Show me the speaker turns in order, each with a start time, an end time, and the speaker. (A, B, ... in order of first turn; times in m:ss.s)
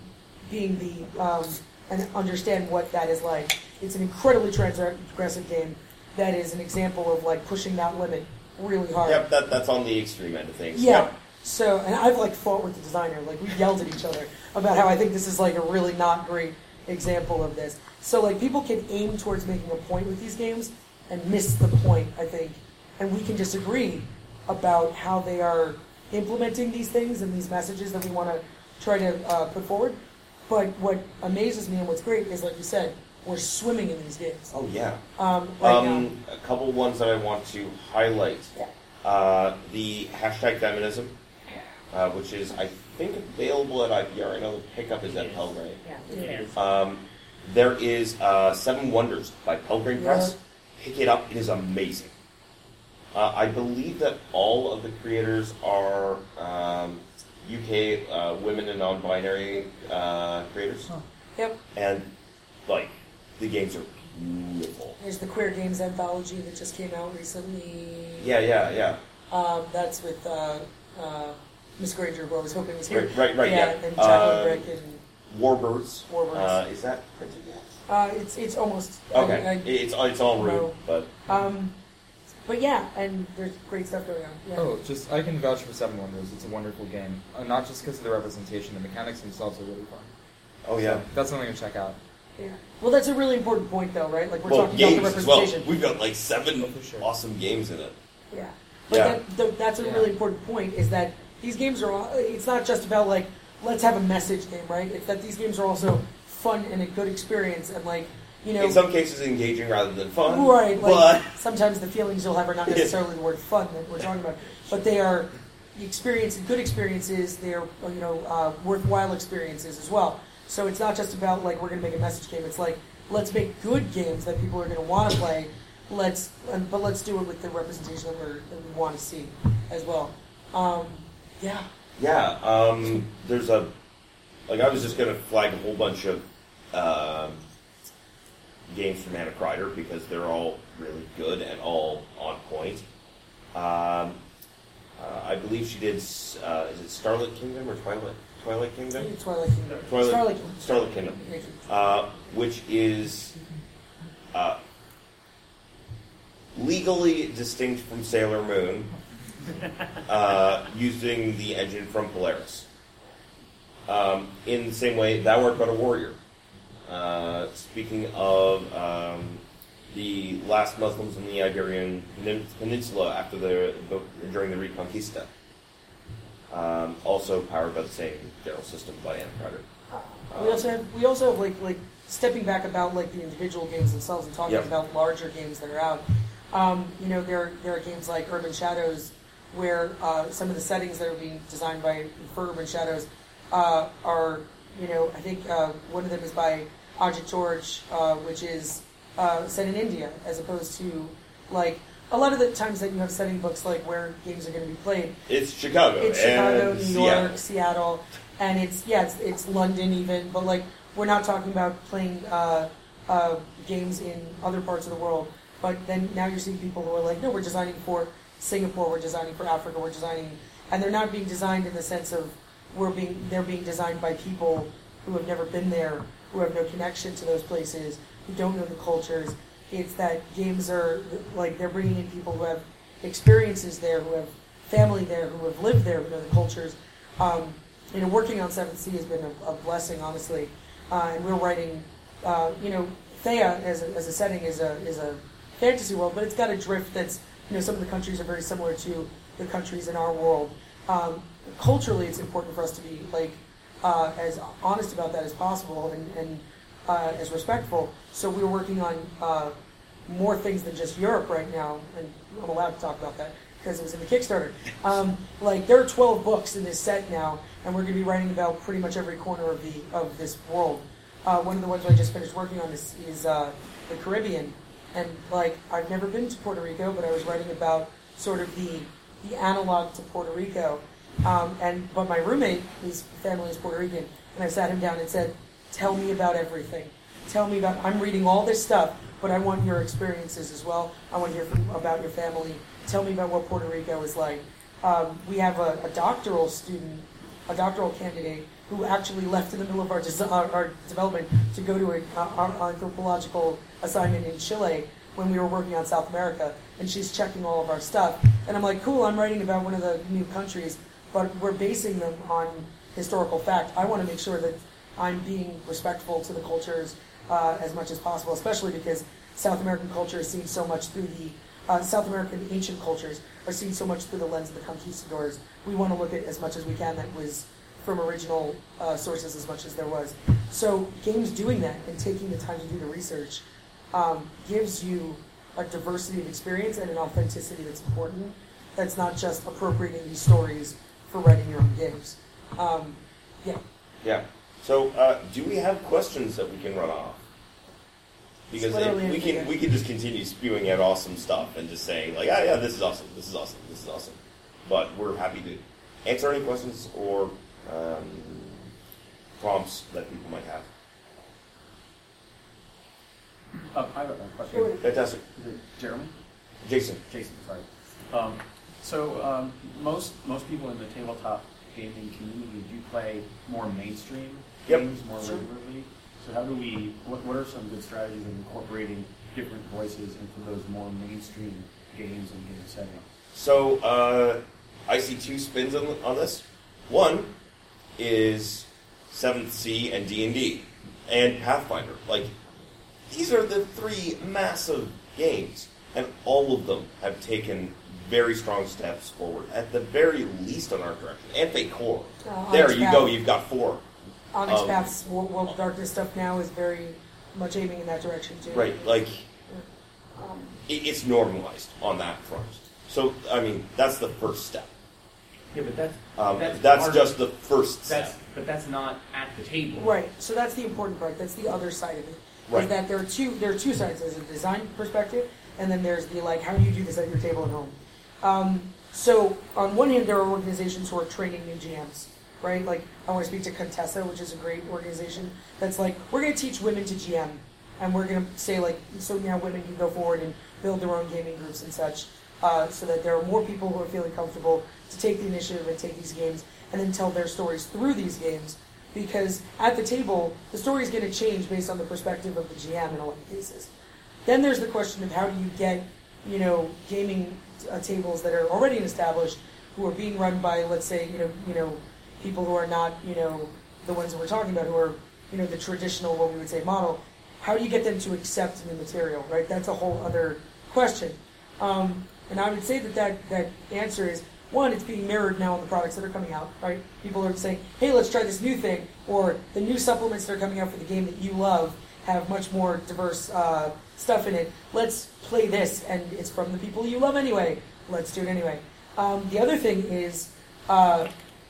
0:00.5-0:09.2 A
0:09.0-0:11.1 B
0:10.7-0:30.0 A
0:30.5-0:34.5 A
0:34.5-0:35.0 B
0:35.2-0:36.1 A
0:35.6-0:41.2 B
0:41.9-0:45.8 B
0:45.1-0:45.4 C
0:46.1-0:46.5 A
0:46.1-0:46.5 C
0:46.5-0:52.1 B
0:50.0-0:50.4 A
0:53.1-1:00.9 B
1:01.8-1:02.1 B
1:02.7-1:05.0 B
1:05.0-1:08.3 A
1:08.2-1:09.0 B
1:09.3-1:15.0 A
1:12.9-1:14.7 B
1:15.3-1:17.7 B
1:16.1-1:16.6 A
1:17.9-1:19.7 A
1:19.1-1:21.1 B
1:20.4-1:20.8 A
1:21.3-1:21.8 A
1:22.5-1:24.7 A
1:24.6-1:30.1 D
1:30.7-1:31.0 B
1:30.8-1:32.0 D
1:32.4-1:35.7 A
1:34.4-1:38.0 B
1:36.6-1:37.1 D
1:38.3-1:48.8 A
1:38.9-1:39.2 B
1:39.8-1:40.1 D
1:48.6-1:51.3 B
1:50.3-2:11.7 A
1:52.7-1:53.0 B
2:12.0-2:13.7 B
2:14.5-2:17.4 B
2:18.7-2:22.8 B
2:23.6-2:24.2 B
2:25.0-2:29.1 B
2:29.0-2:31.6 A
2:29.8-2:33.4 B
2:34.3-2:34.6 B
2:36.6-2:38.9 B
2:40.0-2:42.7 B
2:43.9-2:46.2 B
2:46.9-2:55.3 B
2:56.5-2:59.6 B
2:59.9-3:25.2 A
3:00.3-3:00.7 B
3:25.3-3:27.4 B
3:26.0-4:19.5 A
4:20.1-5:43.6 A
5:44.0-5:47.2 B
5:48.5-5:58.7 B
5:48.6-5:49.5 A
5:59.4-6:00.7 B
6:03.7-6:06.1 E
6:04.8-6:05.2 B
6:06.6-6:07.0 B
6:07.1-6:23.1 E
6:23.3-6:27.3 B
6:28.0-6:32.3 B
6:33.1-6:43.8 B
6:42.2-6:43.2 A
6:44.3-6:48.8 A
6:44.5-6:44.9 B
6:48.5-6:49.3 B
6:50.2-6:50.5 A
6:50.7-6:54.7 B
6:55.5-6:57.2 C
6:56.2-6:58.1 B
6:57.9-6:59.9 C
6:59.8-7:33.7 A
7:34.3-8:11.1 A